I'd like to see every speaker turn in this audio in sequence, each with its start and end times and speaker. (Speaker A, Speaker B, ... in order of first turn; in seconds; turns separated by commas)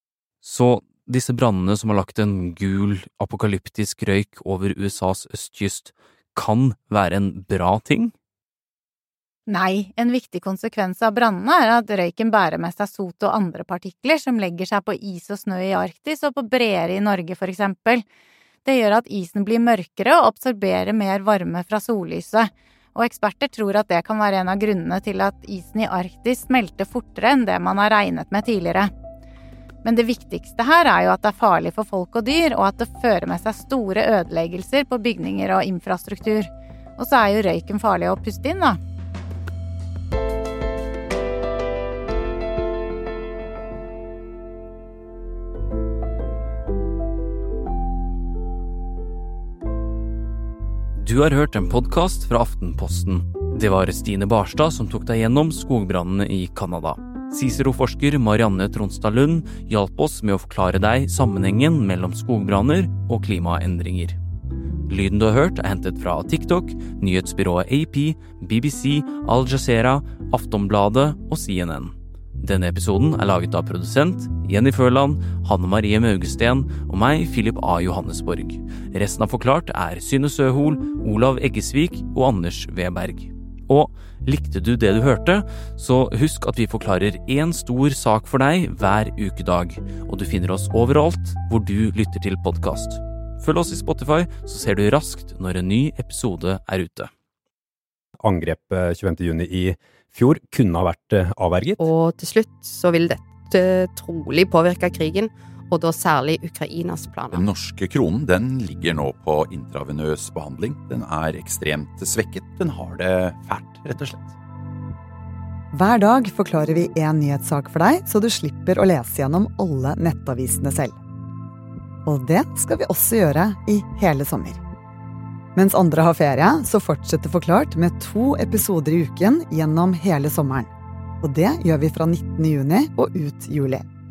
Speaker A: 0.4-8.1, Speaker B: 9.5-18.0, Speaker B: 18.6-28.9, Speaker B: 29.8-38.8, Speaker A: 51.0-64.2, Speaker A: 64.9-97.1, Speaker C: 98.2-101.9, Speaker D: 101.8-107.4, Speaker E: 107.3-114.3, Speaker F: 115.7-121.0, Speaker F: 122.0-124.6, Speaker F: 125.5-130.7, Speaker F: 131.2-133.8